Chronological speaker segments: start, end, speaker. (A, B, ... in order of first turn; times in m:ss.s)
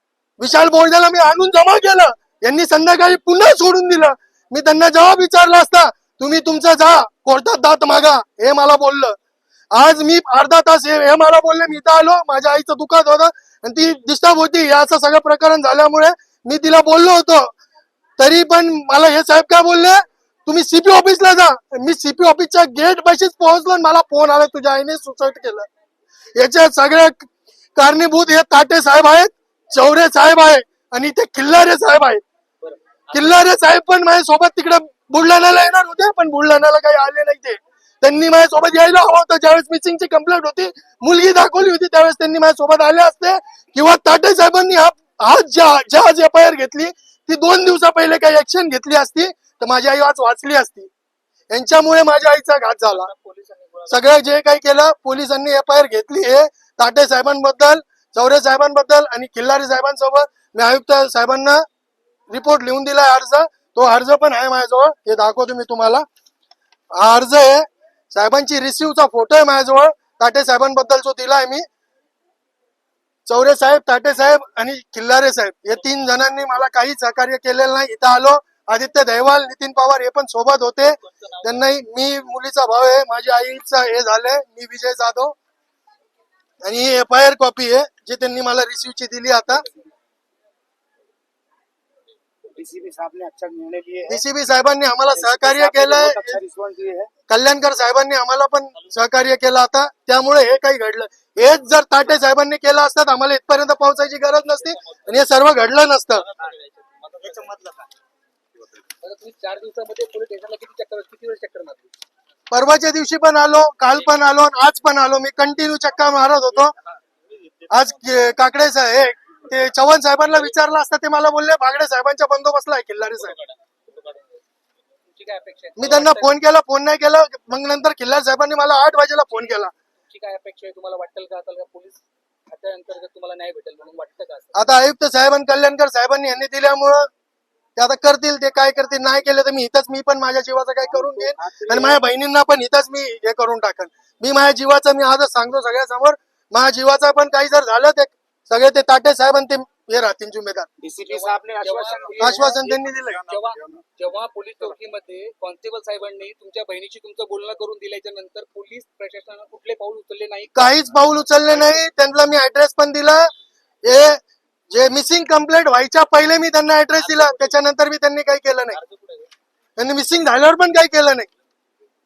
0:00.4-0:09.2 A
0:09.7-0:17.5 A
0:18.2-0:25.7 A
0:26.3-0:32.2 A
0:32.6-0:33.2 B
0:33.1-0:50.9 A
0:51.5-0:53.1 A
0:52.8-0:54.1 B
0:53.9-1:01.6 A
1:02.3-1:06.0 A
1:06.9-1:11.6 A
1:13.3-1:25.4 A
1:26.6-1:29.6 A
1:32.5-1:34.2 C
1:34.1-1:36.4 A
1:35.1-1:37.1 C
1:37.3-1:46.2 A
1:46.4-1:47.2 B
1:49.0-1:51.9 B
1:52.5-1:56.7 A
1:57.7-2:03.4 A
2:03.4-2:04.2 B
2:05.1-2:06.3 B
2:05.8-2:09.7 A
2:10.1-2:14.5 B
2:14.5-2:17.1 A
2:17.8-2:30.7 A
2:20.9-2:22.0 C
2:30.8-2:32.7 C
2:31.0-2:32.6 B
2:32.2-2:33.2 A
2:33.2-2:40.7 B
2:40.6-2:43.3 A
2:43.8-2:44.2 A
2:44.7-2:48.8 A
2:47.0-2:47.5 B
2:48.8-2:49.3 B
2:49.8-2:51.3 A